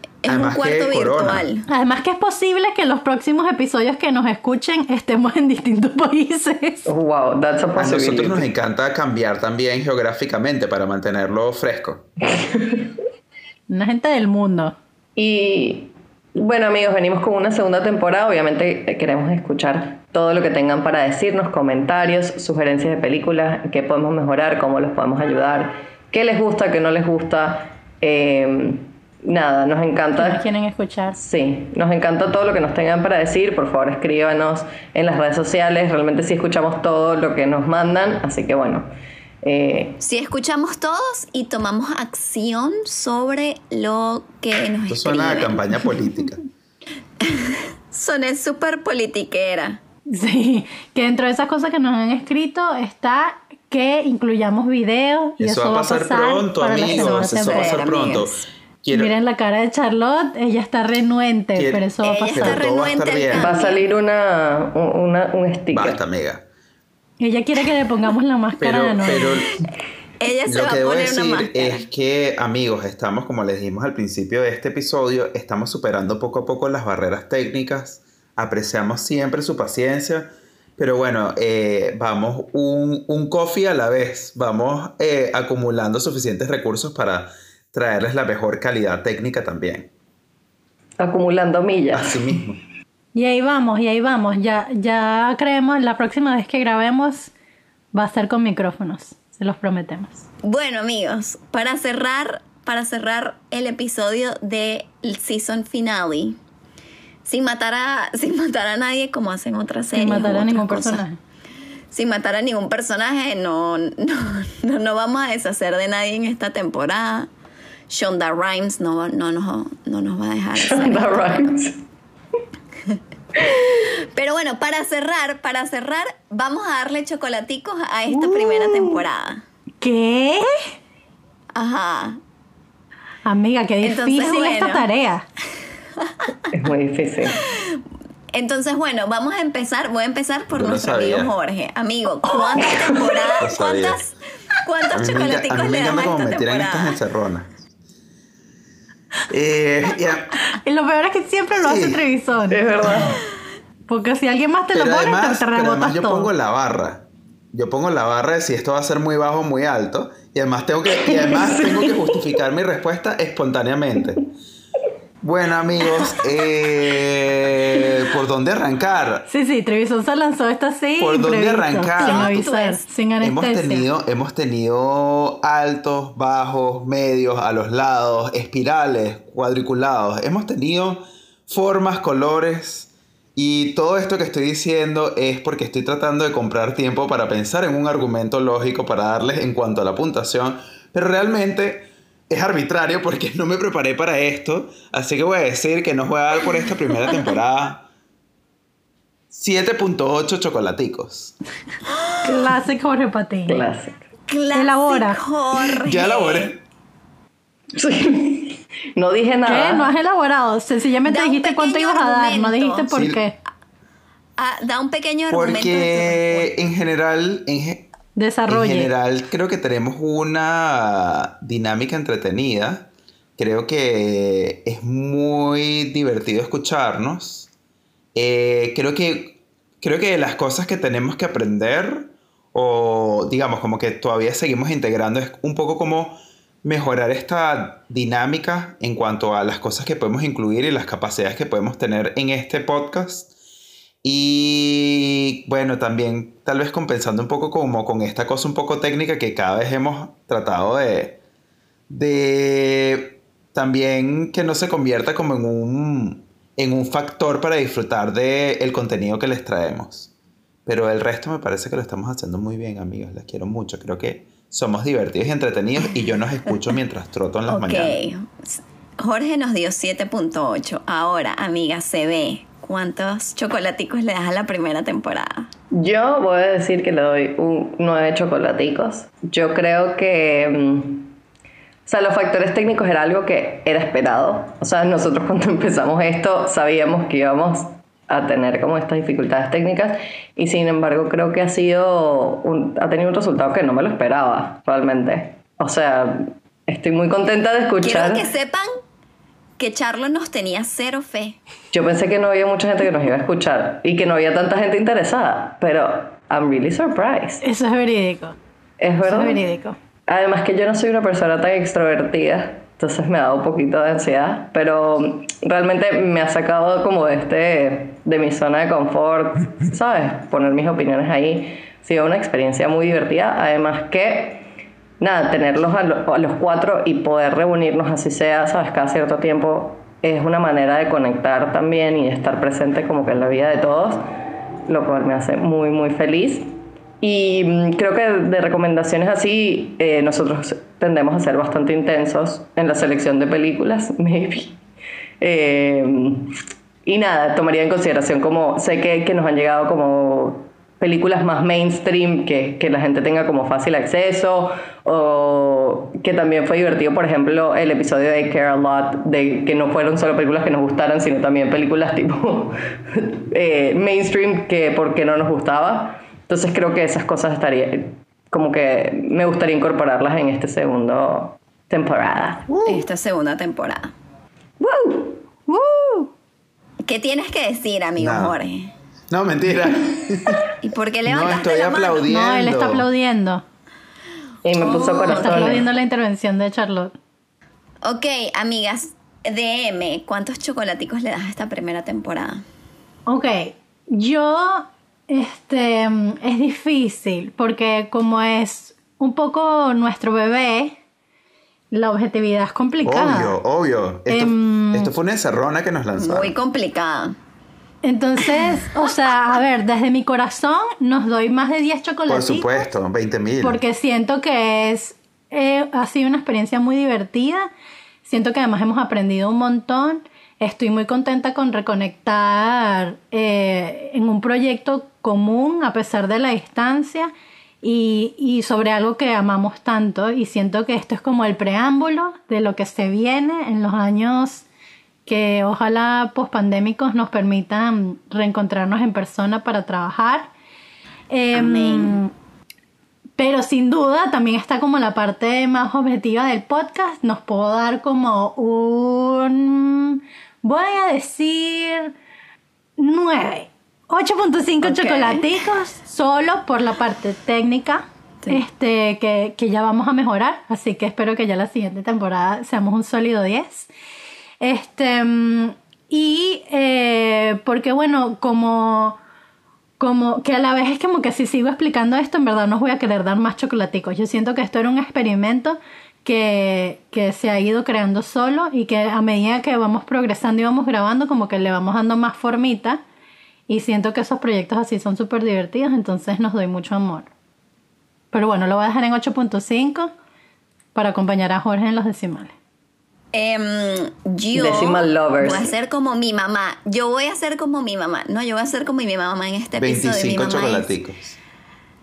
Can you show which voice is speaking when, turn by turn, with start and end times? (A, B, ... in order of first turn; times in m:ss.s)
0:00.2-0:01.7 A
0:00.2-0:01.5 B
0:01.7-0:06.9 C
0:06.8-0:08.5 D
0:07.8-0:12.0 B
0:12.4-0:12.9 D
0:13.7-0:14.7 C
0:15.2-0:30.4 D
0:30.2-0:31.2 C
0:31.1-0:38.9 D
0:39.4-0:40.0 D
0:40.0-0:45.7 A
0:44.9-0:46.4 B
0:47.2-0:49.8 A
0:50.1-0:57.8 C
0:55.4-0:59.1 B
0:56.9-0:58.4 A
0:58.9-1:02.6 C
1:01.5-1:03.5 B
1:02.0-1:03.8 A
1:03.3-1:06.0 D
1:05.7-1:06.4 B
1:07.2-1:09.4 C
1:08.6-1:09.5 B
1:10.2-1:11.9 A
1:10.5-1:29.9 B
1:31.0-1:32.4 D
1:31.9-1:32.6 B
1:33.1-1:37.3 C
1:37.9-1:40.2 C
1:40.4-1:46.4 A
1:47.2-1:51.0 A
1:49.9-1:51.2 C
1:51.9-1:57.3 A
1:57.9-2:01.5 A
2:00.6-2:01.8 D
2:03.4-2:09.4 A
2:08.1-2:09.0 D
2:09.8-2:10.7 C
2:11.5-2:12.2 A
2:13.2-2:15.2 C
2:13.8-2:14.9 A
2:16.0-2:16.3 A
2:16.5-2:17.4 D
2:17.4-2:17.8 A
2:18.3-2:27.0 A
2:20.5-2:21.3 B
2:22.3-2:23.2 D
2:23.4-2:24.0 B
2:24.9-2:27.5 B
2:29.3-2:30.4 B
2:30.5-2:32.8 C
2:31.6-2:32.0 B
2:32.5-2:33.2 D
2:32.8-2:33.1 B
2:33.9-2:36.3 C
2:34.7-2:44.3 B
2:40.9-2:42.3 D
2:45.2-2:49.2 B
2:49.3-2:53.9 C
2:51.0-2:52.5 B
2:52.0-2:52.8 A
2:53.2-3:17.9 B
3:19.3-3:21.3 B
3:22.2-3:23.6 C
3:23.5-3:24.0 D
3:24.3-3:26.5 A
3:24.5-3:25.2 C
3:25.8-3:26.6 B
3:27.7-3:29.9 D
3:29.4-3:33.4 C
3:31.0-3:32.9 A
3:32.9-3:33.2 B
3:34.4-3:36.6 A
3:35.3-3:37.9 B
3:38.2-3:38.9 C
3:38.5-3:47.5 B
3:48.1-4:03.3 B
4:04.0-4:11.2 B
4:11.9-4:20.1 B
4:20.6-4:28.0 B
4:27.5-4:35.5 A
4:35.7-4:41.1 D
4:41.9-4:58.2 D
4:57.8-4:58.7 A
4:59.6-5:01.4 A
5:01.7-5:07.4 D
5:07.4-5:08.4 C
5:08.8-5:09.4 D
5:09.0-5:09.8 C
5:10.1-5:24.4 D
5:25.0-5:34.0 D
5:34.7-5:44.6 D
5:45.2-5:46.3 D
5:46.8-6:12.5 D
6:12.5-6:12.8 B
6:12.6-6:13.9 A
6:14.6-6:16.1 D
6:16.8-6:18.7 A
6:18.0-6:18.4 B
6:19.1-6:20.4 B
6:20.6-6:22.0 A
6:21.0-6:22.8 B
6:22.1-6:23.4 C
6:24.4-6:25.7 D
6:24.5-6:25.6 A
6:25.1-6:26.9 C
6:27.8-6:32.4 A
6:33.1-6:40.7 C
6:41.7-6:43.4 C
6:42.8-6:46.3 B
6:44.1-6:44.9 C
6:46.0-6:47.2 A
6:47.8-6:52.7 C
6:52.1-6:53.6 B
6:53.4-6:57.5 C
6:58.0-7:14.4 C
7:15.0-7:20.3 C
7:21.1-7:22.1 C
7:21.3-7:22.0 A
7:23.2-7:31.9 C
7:32.8-7:43.7 C
7:34.6-7:35.2 A
7:44.4-7:49.0 C
7:49.8-8:02.8 C
8:03.5-8:07.1 C
8:08.1-8:09.9 C
8:10.7-8:12.3 C
8:13.1-8:20.7 A
8:14.3-8:15.5 D
8:19.6-8:21.2 B